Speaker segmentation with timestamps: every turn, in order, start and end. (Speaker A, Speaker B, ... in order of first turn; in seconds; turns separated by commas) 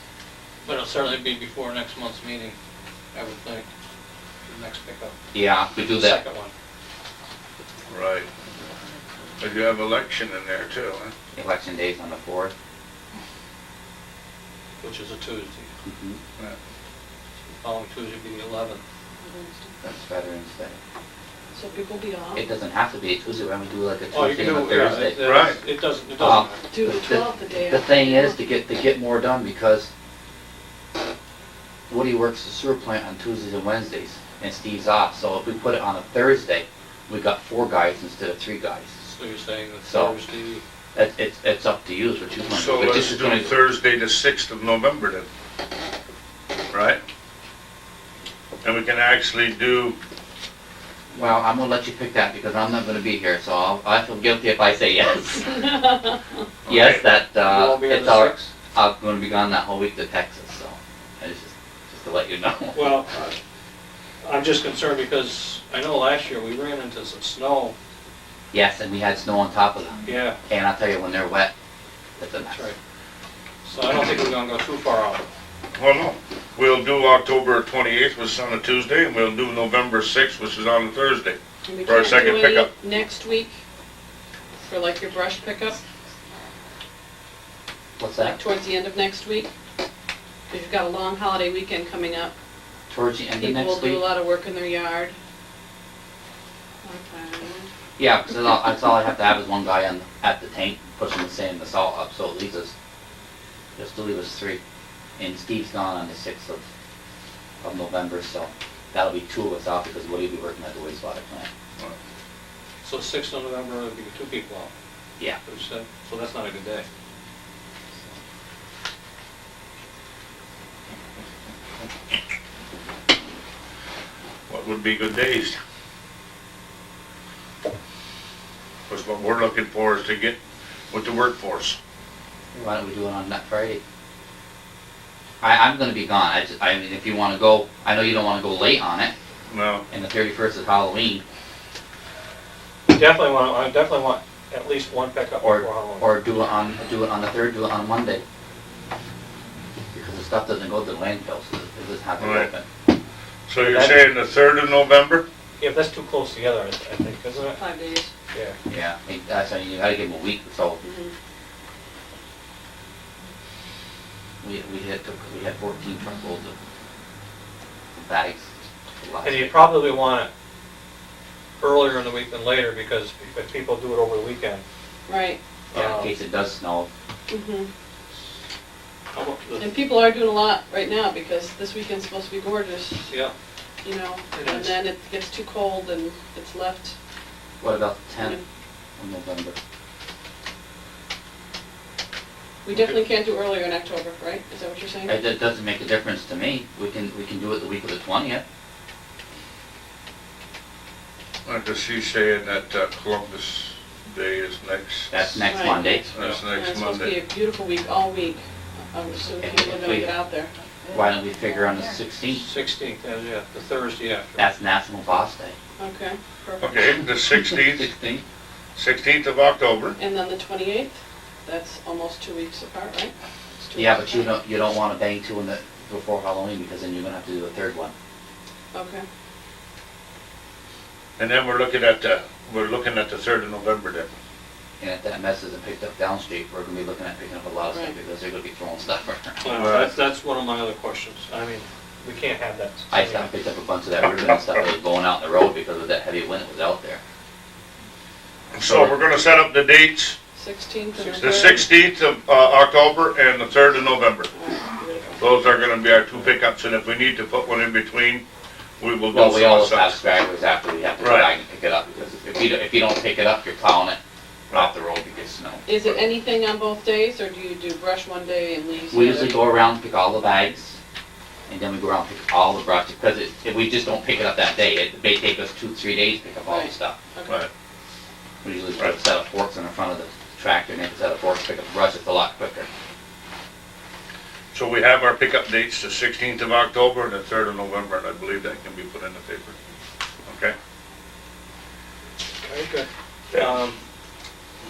Speaker A: 0.6-2.5, Speaker A: 3.1-3.7, Speaker A: 4.5-5.2, Speaker B: 5.3-6.2, Speaker A: 5.8-6.5, Speaker C: 7.9-8.3, Speaker C: 9.4-11.1, Speaker B: 11.3-12.5, Speaker A: 14.8-15.7, Speaker B: 15.8-16.2, Speaker A: 17.5-18.8, Speaker D: 19.2-19.8, Speaker B: 19.8-20.8, Speaker D: 21.6-22.4, Speaker B: 22.4-25.2, Speaker A: 24.1-26.6, Speaker C: 25.2-25.6, Speaker B: 26.2-29.9, Speaker D: 26.7-28.4, Speaker B: 31.9-38.9, Speaker A: 39.0-40.6, Speaker B: 39.9-40.1, Speaker B: 41.0-43.6, Speaker C: 42.5-45.3, Speaker C: 46.7-47.0, Speaker C: 48.6-50.0, Speaker B: 51.1-55.9, Speaker C: 56.7-57.0, Speaker B: 56.7-63.3, Speaker A: 57.4-58.4, Speaker A: 62.7-63.3, Speaker A: 64.2-67.8, Speaker B: 68.5-71.5, Speaker A: 70.0-70.4, Speaker B: 72.2-72.6, Speaker A: 72.5-72.8, Speaker A: 73.7-75.2, Speaker C: 75.8-82.7, Speaker D: 81.7-83.6, Speaker D: 84.6-85.8, Speaker B: 88.0-88.4, Speaker D: 88.2-89.5, Speaker D: 90.5-92.3, Speaker B: 92.9-94.0, Speaker D: 93.4-95.2, Speaker D: 96.8-97.7, Speaker B: 98.0-102.7, Speaker B: 103.8-104.6, Speaker B: 105.2-106.6, Speaker B: 107.6-111.5, Speaker A: 112.8-114.7, Speaker A: 115.5-116.8, Speaker C: 124.5-125.6, Speaker C: 128.9-130.4, Speaker C: 130.9-131.8, Speaker B: 132.5-133.8, Speaker B: 135.4-139.1, Speaker C: 139.5-139.8, Speaker B: 139.9-141.2, Speaker A: 142.9-146.2, Speaker B: 145.4-148.2, Speaker B: 149.9-152.7, Speaker C: 152.2-152.5, Speaker C: 153.5-155.2, Speaker A: 153.6-154.1, Speaker A: 155.6-157.6, Speaker D: 157.5-158.1, Speaker B: 158.7-160.8, Speaker D: 160.8-161.1, Speaker B: 164.4-166.6, Speaker B: 167.9-169.9, Speaker A: 169.2-170.3, Speaker A: 171.6-174.6, Speaker D: 175.1-175.4, Speaker A: 175.7-176.1, Speaker B: 175.7-176.9, Speaker D: 177.3-177.7, Speaker A: 179.1-179.7, Speaker D: 179.6-183.1, Speaker A: 183.1-183.3, Speaker D: 183.8-186.9, Speaker A: 184.3-184.8, Speaker B: 187.6-188.4, Speaker B: 189.0-189.6, Speaker D: 192.6-195.2, Speaker B: 195.1-198.4, Speaker C: 201.4-205.5, Speaker B: 205.1-206.1, Speaker D: 205.4-210.5, Speaker C: 206.1-207.1, Speaker B: 209.4-210.1, Speaker B: 210.9-212.5, Speaker A: 212.4-214.4, Speaker B: 214.4-215.6, Speaker D: 215.8-217.0, Speaker C: 216.6-217.9, Speaker B: 217.4-218.2, Speaker C: 218.8-220.0, Speaker D: 220.0-224.3, Speaker B: 223.8-227.9, Speaker D: 228.7-229.1, Speaker C: 231.2-234.1, Speaker B: 234.8-239.5, Speaker D: 237.7-238.0, Speaker A: 239.4-243.3, Speaker C: 239.5-240.0, Speaker B: 242.9-247.0, Speaker C: 248.5-250.2, Speaker D: 250.4-251.7, Speaker C: 251.0-254.3, Speaker D: 254.3-255.4, Speaker C: 255.2-258.2, Speaker C: 258.8-260.0, Speaker B: 259.1-264.0, Speaker C: 261.0-261.3, Speaker B: 264.5-265.7, Speaker D: 265.7-269.5, Speaker B: 268.9-270.8, Speaker B: 271.5-277.0, Speaker D: 276.5-277.4, Speaker B: 278.4-282.7, Speaker C: 284.5-289.6, Speaker C: 290.3-290.6, Speaker A: 292.4-293.8